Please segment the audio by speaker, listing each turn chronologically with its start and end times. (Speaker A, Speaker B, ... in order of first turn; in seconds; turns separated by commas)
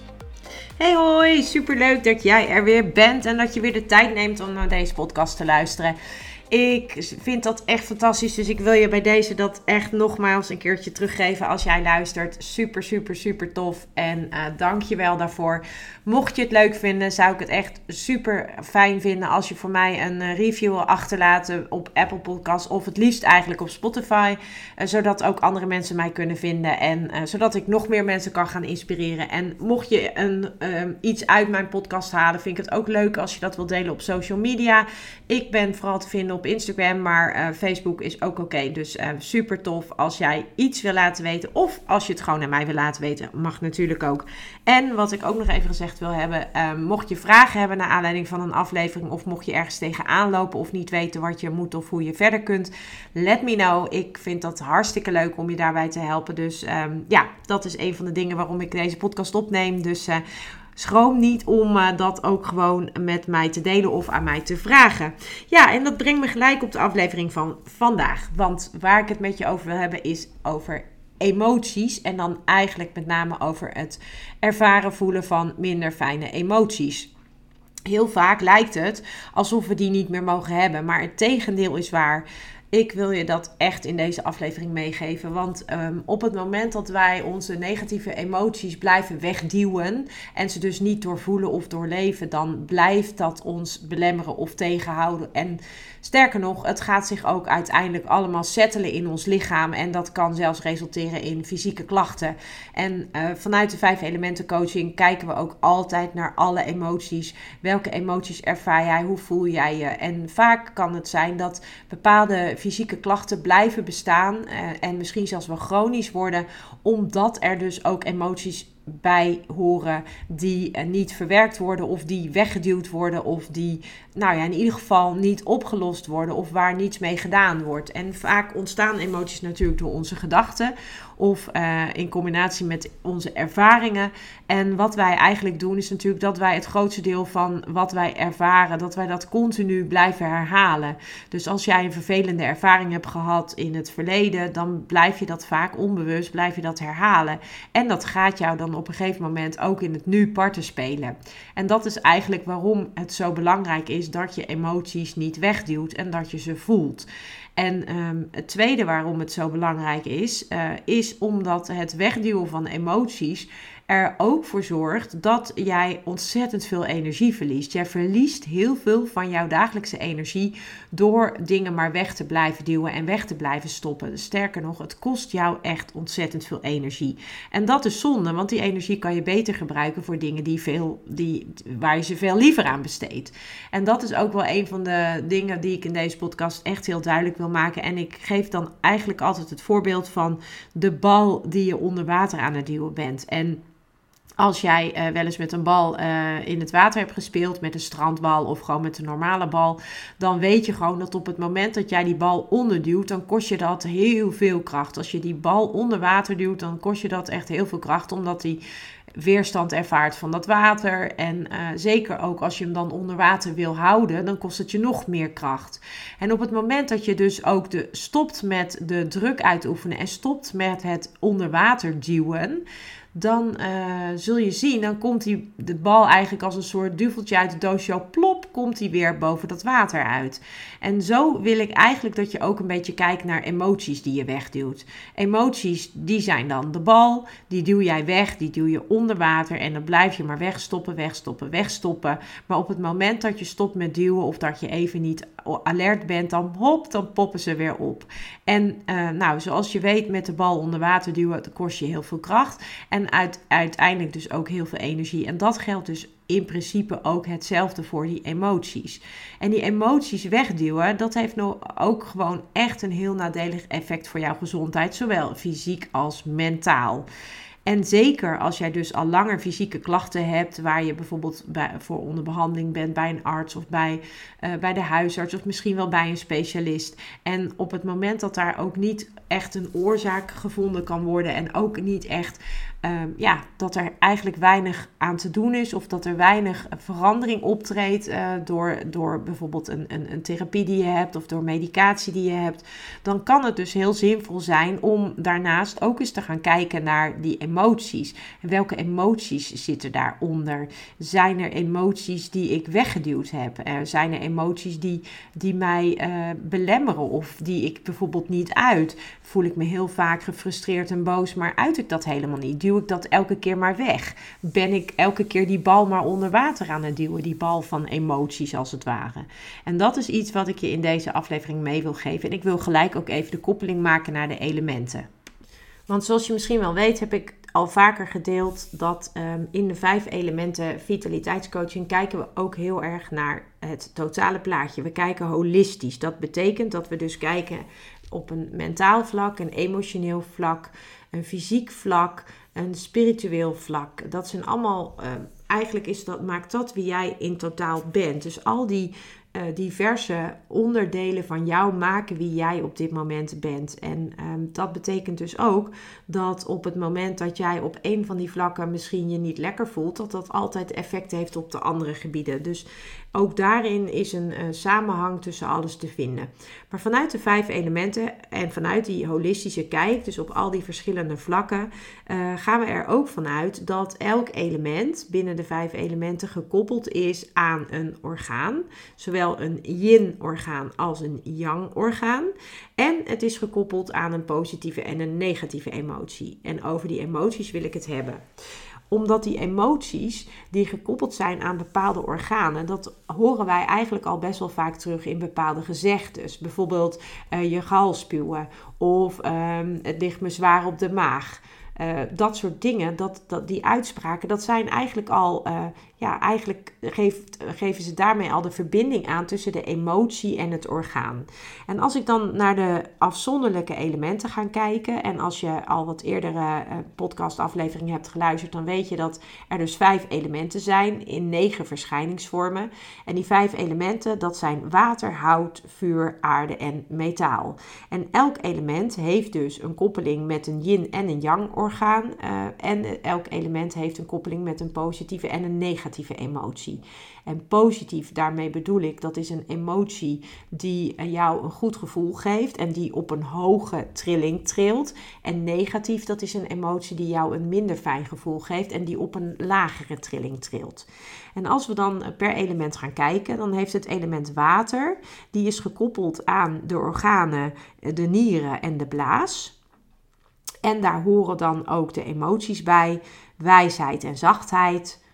Speaker A: 0.8-6.0, Speaker A: 6.5-60.2, Speaker A: 60.8-77.1, Speaker A: 77.8-193.6, Speaker A: 194.4-208.6, Speaker A: 209.2-222.6, Speaker A: 223.1-267.1, Speaker A: 267.6-325.1, Speaker A: 325.9-388.2, Speaker A: 388.9-459.5, Speaker A: 460.6-465.0